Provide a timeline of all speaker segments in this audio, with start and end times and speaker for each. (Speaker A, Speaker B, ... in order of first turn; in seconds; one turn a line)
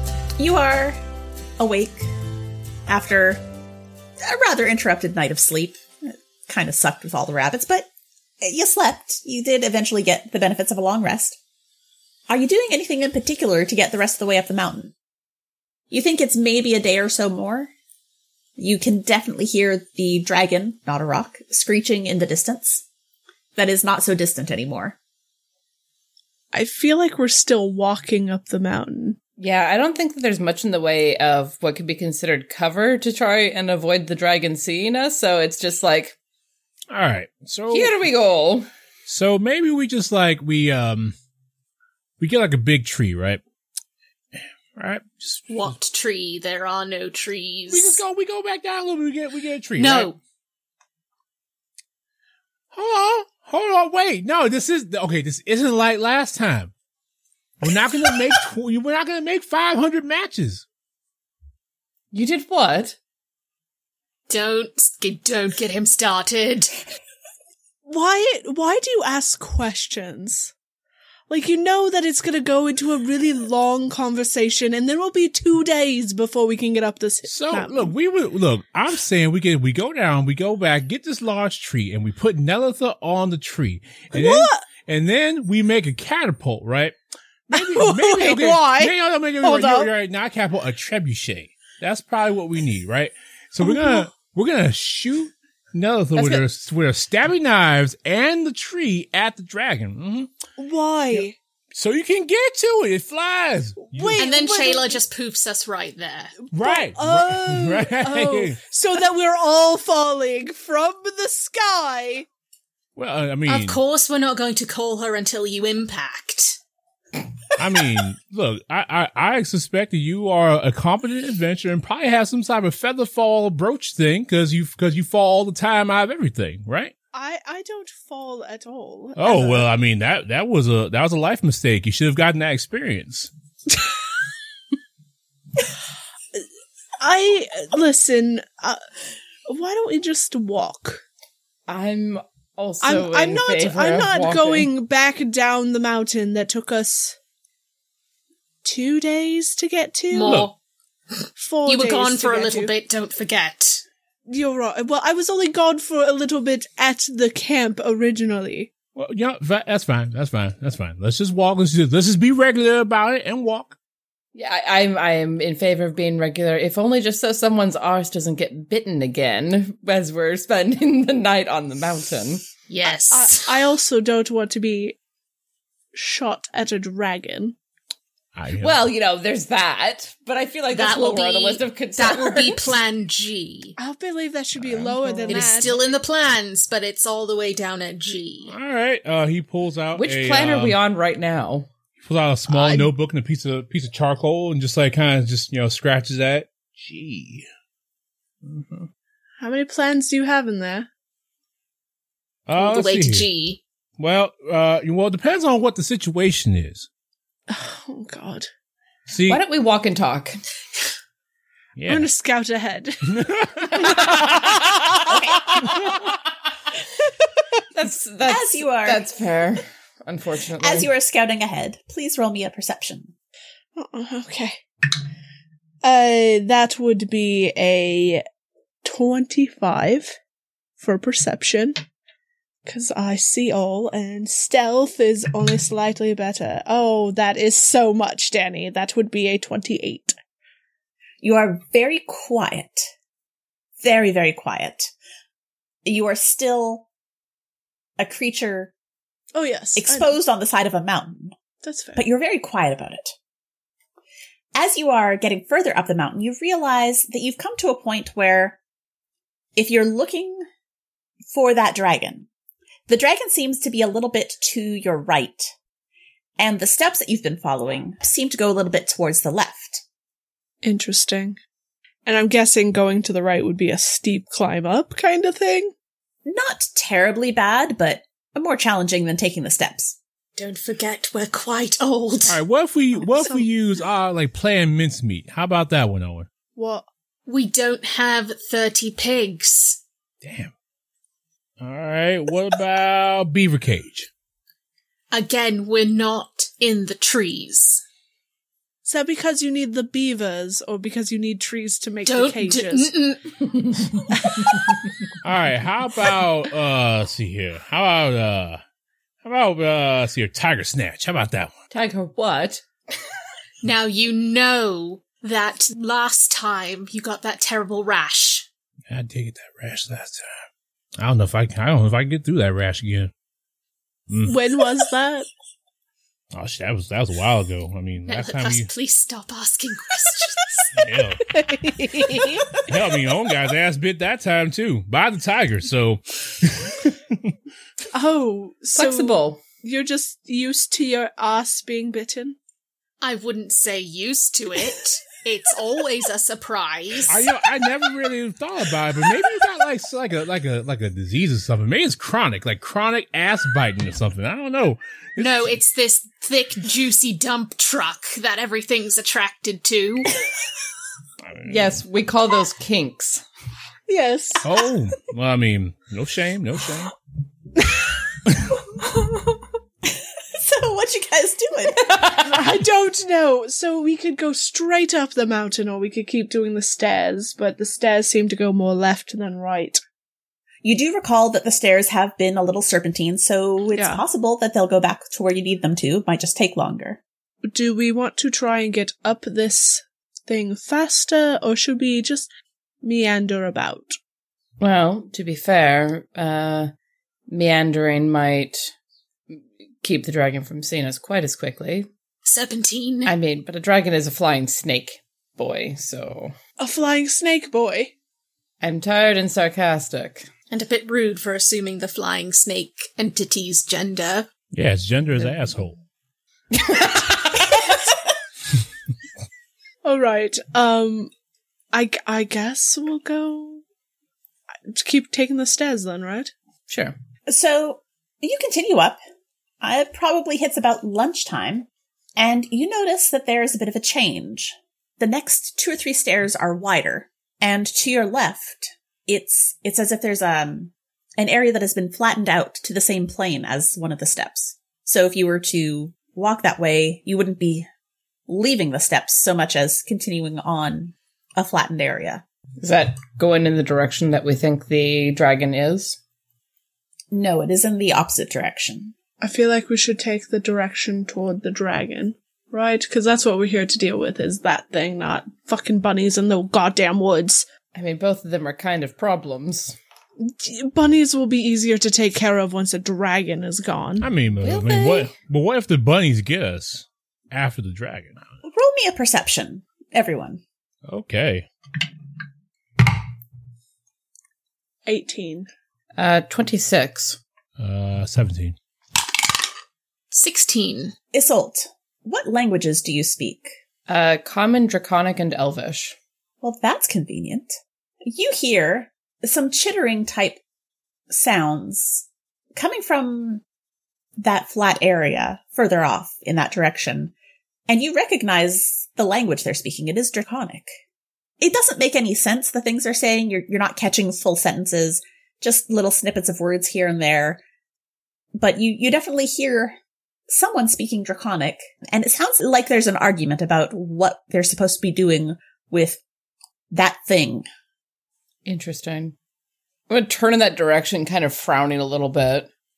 Speaker A: 0.4-1.0
Speaker A: 1.6-2.1
Speaker A: 2.9-3.4
Speaker A: 4.2-7.9
Speaker A: 8.4-11.4
Speaker A: 12.3-14.9
Speaker A: 15.9-17.7
Speaker A: 18.6-22.8
Speaker A: 23.6-25.0
Speaker B: 26.5-29.2
Speaker C: 29.4-36.2
Speaker D: 36.9-38.0
Speaker C: 37.7-38.7
Speaker D: 39.1-41.1
Speaker D: 42.2-43.4
Speaker D: 44.8-45.7
Speaker E: 45.5-48.0
Speaker D: 47.7-50.1
Speaker E: 49.8-50.2
Speaker D: 52.7-56.7
Speaker D: 57.6-60.6
Speaker C: 62.1-63.0
Speaker E: 64.3-66.7
Speaker B: 67.9-70.5
Speaker B: 71.3-77.9
Speaker D: 77.3-87.0
Speaker B: 84.2-84.7
Speaker D: 87.5-100.3
Speaker B: 87.5-89.9
Speaker B: 93.6-94.1
Speaker C: 96.2-96.5
Speaker B: 100.6-101.3
Speaker D: 101.1-104.2
Speaker B: 103.8-105.0
Speaker E: 104.2-106.4
Speaker D: 106.5-108.6
Speaker B: 106.5-112.3
Speaker D: 113.0-113.8
Speaker E: 113.5-116.6
Speaker D: 117.6-126.9
Speaker B: 127.1-129.7
Speaker D: 129.2-133.3
Speaker B: 137.0-138.8
Speaker B: 139.5-141.0
Speaker C: 141.7-144.7
Speaker B: 142.8-147.2
Speaker B: 148.6-150.4
Speaker E: 150.1-150.6
Speaker D: 150.2-150.5
Speaker E: 151.2-153.8
Speaker B: 151.4-152.7
Speaker B: 154.3-158.7
Speaker D: 159.0-163.8
Speaker C: 164.3-172.4
Speaker E: 172.7-173.6
Speaker B: 172.8-175.0
Speaker B: 175.9-177.6
Speaker D: 178.3-178.9
Speaker C: 178.6-182.8
Speaker E: 180.7-183.8
Speaker B: 183.8-185.8
Speaker D: 184.6-185.6
Speaker E: 185.3-188.6
Speaker D: 188.5-190.8
Speaker C: 189.9-191.7
Speaker D: 192.0-197.5
Speaker E: 192.5-192.9
Speaker D: 198.4-198.9
Speaker B: 199.4-200.9
Speaker D: 202.5-203.3
Speaker E: 202.6-203.6
Speaker D: 204.0-206.9
Speaker B: 207.5-208.5
Speaker D: 209.1-209.4
Speaker C: 209.3-210.4
Speaker D: 211.8-212.1
Speaker B: 211.9-215.2
Speaker D: 213.1-214.5
Speaker A: 215.1-215.4
Speaker D: 215.6-216.1
Speaker C: 217.7-220.9
Speaker A: 218.2-219.0
Speaker A: 220.6-223.1
Speaker B: 223.8-224.6
Speaker B: 225.8-228.2
Speaker B: 228.8-230.2
Speaker B: 230.8-231.8
Speaker B: 232.7-240.2
Speaker A: 241.2-242.9
Speaker A: 243.8-244.9
Speaker A: 245.8-246.9
Speaker A: 248.0-248.7
Speaker B: 249.3-250.1
Speaker A: 249.8-251.3
Speaker B: 251.6-252.0
Speaker A: 251.9-253.2
Speaker A: 254.5-258.6
Speaker A: 259.6-260.5
Speaker A: 261.3-262.3
Speaker A: 262.9-265.5
Speaker A: 266.4-269.8
Speaker B: 270.6-271.4
Speaker B: 272.1-275.7
Speaker A: 276.2-280.0
Speaker E: 280.4-282.4
Speaker D: 282.3-286.3
Speaker B: 286.6-286.9
Speaker E: 287.3-289.8
Speaker D: 290.2-290.5
Speaker D: 291.6-294.1
Speaker E: 295.1-297.8
Speaker B: 298.9-302.9
Speaker E: 302.1-303.5
Speaker B: 304.1-304.5
Speaker D: 305.2-308.6
Speaker D: 309.2-311.5
Speaker C: 311.7-312.6
Speaker E: 313.6-318.5
Speaker D: 318.9-320.2
Speaker D: 321.0-323.1
Speaker D: 324.1-324.4
Speaker B: 324.3-325.3
Speaker D: 326.3-328.7
Speaker E: 328.1-330.8
Speaker D: 330.8-331.2
Speaker B: 331.3-332.6
Speaker D: 332.5-337.3
Speaker B: 337.9-342.4
Speaker C: 338.7-339.4
Speaker E: 343.0-347.3
Speaker D: 347.1-355.6
Speaker E: 355.2-360.2
Speaker D: 361.2-361.8
Speaker C: 361.4-363.2
Speaker B: 363.9-364.7
Speaker D: 364.4-366.9
Speaker A: 370.3-372.0
Speaker C: 371.9-372.3
Speaker B: 372.2-379.8
Speaker A: 380.6-387.0
Speaker B: 383.8-384.0
Speaker B: 387.4-392.3
Speaker B: 392.8-393.9
Speaker C: 394.6-396.7
Speaker C: 397.3-398.7
Speaker C: 399.3-401.9
Speaker E: 402.2-403.1
Speaker C: 403.1-406.4
Speaker B: 406.6-407.9
Speaker C: 408.6-410.3
Speaker E: 410.5-414.3
Speaker D: 414.5-415.8
Speaker C: 416.5-417.6
Speaker B: 419.8-421.1
Speaker B: 421.7-423.6
Speaker B: 424.7-426.3
Speaker C: 426.7-427.0
Speaker A: 427.3-429.0
Speaker A: 429.6-447.7
Speaker A: 448.3-452.2
Speaker C: 452.6-456.0
Speaker A: 457.1-458.9
Speaker B: 459.2-467.5
Speaker C: 467.7-469.8
Speaker B: 470.2-474.1
Speaker D: 474.0-478.2
Speaker C: 474.4-475.1
Speaker A: 478.4-480.4
Speaker D: 480.9-481.5
Speaker B: 484.9-485.5
Speaker C: 486.0-487.2
Speaker D: 487.6-488.6
Speaker E: 490.1-490.9
Speaker A: 491.1-493.5
Speaker C: 493.9-496.0
Speaker A: 496.4-500.4
Speaker A: 501.1-503.4
Speaker A: 504.2-507.1
Speaker A: 507.7-510.7
Speaker A: 511.4-517.4
Speaker A: 518.3-519.8
Speaker A: 520.3-526.0
Speaker A: 526.7-527.5
Speaker C: 528.5-529.1
Speaker C: 529.9-532.5